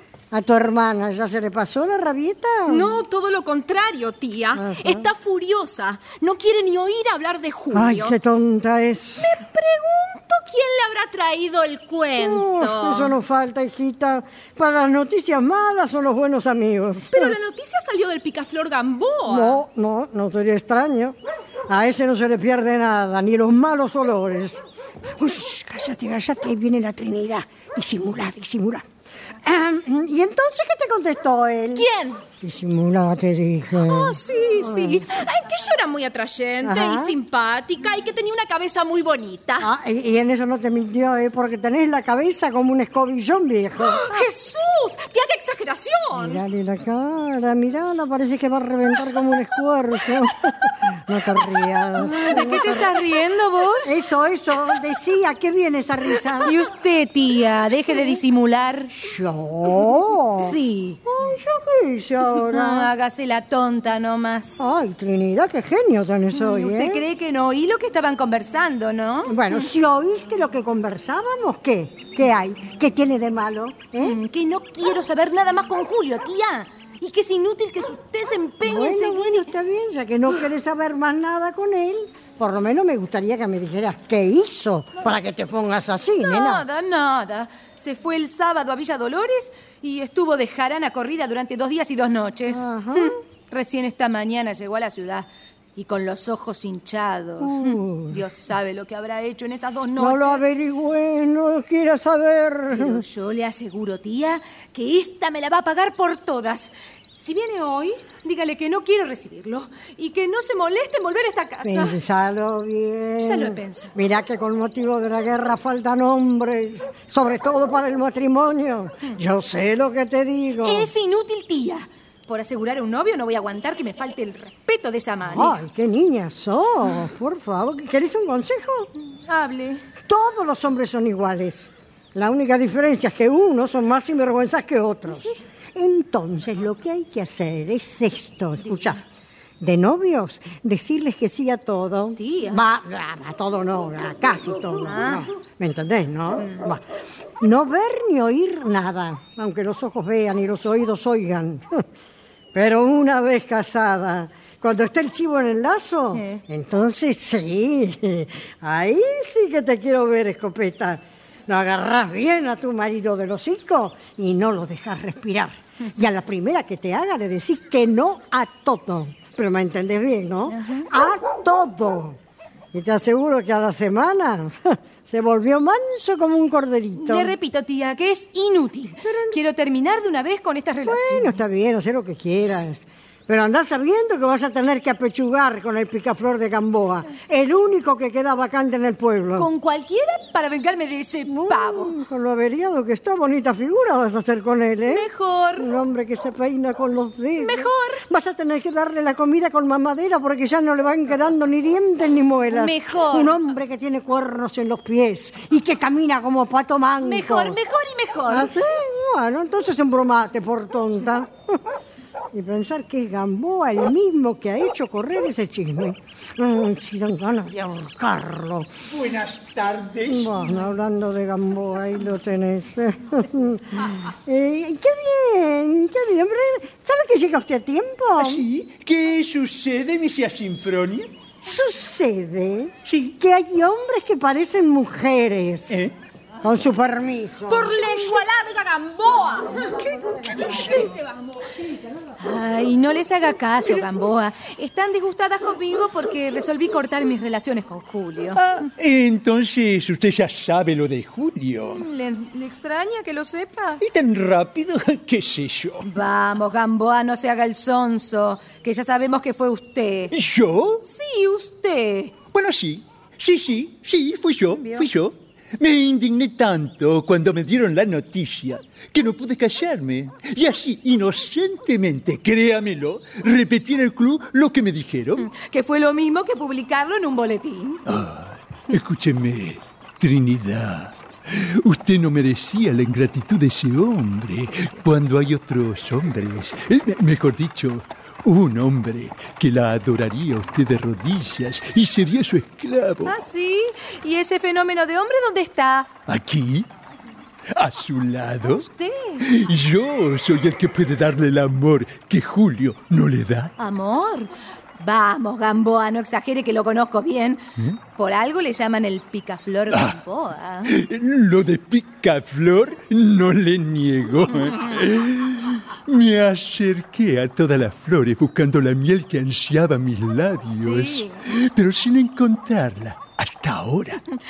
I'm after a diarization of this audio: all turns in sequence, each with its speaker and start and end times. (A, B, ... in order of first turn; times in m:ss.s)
0:00.3-0:03.0 A
0:02.7-0:08.2 B
0:04.6-0:05.1 A
0:07.7-0:09.3 A
0:09.2-0:13.1 B
0:12.1-0:17.3 A
0:17.1-0:19.6 B
0:19.2-0:21.2 A
0:21.7-0:24.6 A
0:25.1-0:28.8 A
0:29.4-0:35.0 A
0:31.8-0:32.2 B
0:33.8-0:39.7 B
0:36.6-0:37.1 A
0:39.6-0:44.2 A
0:43.8-0:46.4 B
0:46.1-0:53.0 A
0:52.0-0:53.9 C
0:53.8-0:56.5 A
0:56.4-0:58.9 C
0:58.9-1:02.9 A
1:00.4-1:01.0 C
1:02.4-1:04.6 C
1:04.6-1:07.0 A
1:06.3-1:09.6 C
1:09.2-1:14.2 A
1:14.0-1:19.3 C
1:18.6-1:26.6 A
1:26.2-1:40.4 C
1:32.5-1:33.2 A
1:37.4-1:38.2 A
1:40.0-1:43.0 A
1:42.7-1:52.0 C
1:51.6-2:00.9 A
1:53.2-1:53.9 C
2:00.6-2:05.6 C
2:05.2-2:08.9 A
2:09.2-2:09.8 C
2:10.0-2:19.0 A
2:15.1-2:15.4 C
2:19.6-2:26.8 A
2:22.2-2:22.6 C
2:24.8-2:25.2 C
2:27.4-2:31.8 A
2:32.5-2:52.2 A
2:36.1-2:36.4 C
2:50.5-2:50.9 C
2:52.7-2:57.3 A
2:57.0-3:01.4 C
2:59.0-2:59.4 A
3:00.8-3:09.5 A
3:09.4-3:11.9 C
3:11.3-3:27.6 A
3:14.9-3:15.7 C
3:17.4-3:18.0 C
3:22.5-3:23.4 C
3:27.0-3:28.5 C
3:28.3-3:31.6 A
3:32.3-3:38.7 A
3:38.9-3:40.4 D
3:40.1-3:48.4 A
3:48.2-3:51.1 D
3:51.4-3:55.8 A
3:52.8-3:53.1 D
3:56.4-3:58.2 A
3:57.5-3:59.7 B
3:59.8-4:00.9 D
4:00.8-4:01.4 B
4:02.2-4:08.4 C
4:08.4-4:11.8 D
4:11.7-4:13.8 C
4:13.8-4:15.9 D
4:15.9-4:20.1 C
4:20.1-4:20.8 D
4:20.8-4:22.2 C
4:22.3-4:35.2 D
4:35.2-4:37.8 C
4:37.9-4:53.1 D
4:44.4-4:44.8 C
4:53.0-4:55.9 C
4:56.1-4:56.7 D
4:57.6-4:58.6 D
4:58.5-4:59.3 C
4:59.2-5:03.5 D
5:03.6-5:10.7 C
5:09.7-5:10.0 D
5:10.6-5:24.0 D
5:14.5-5:14.7 C
5:20.5-5:21.2 C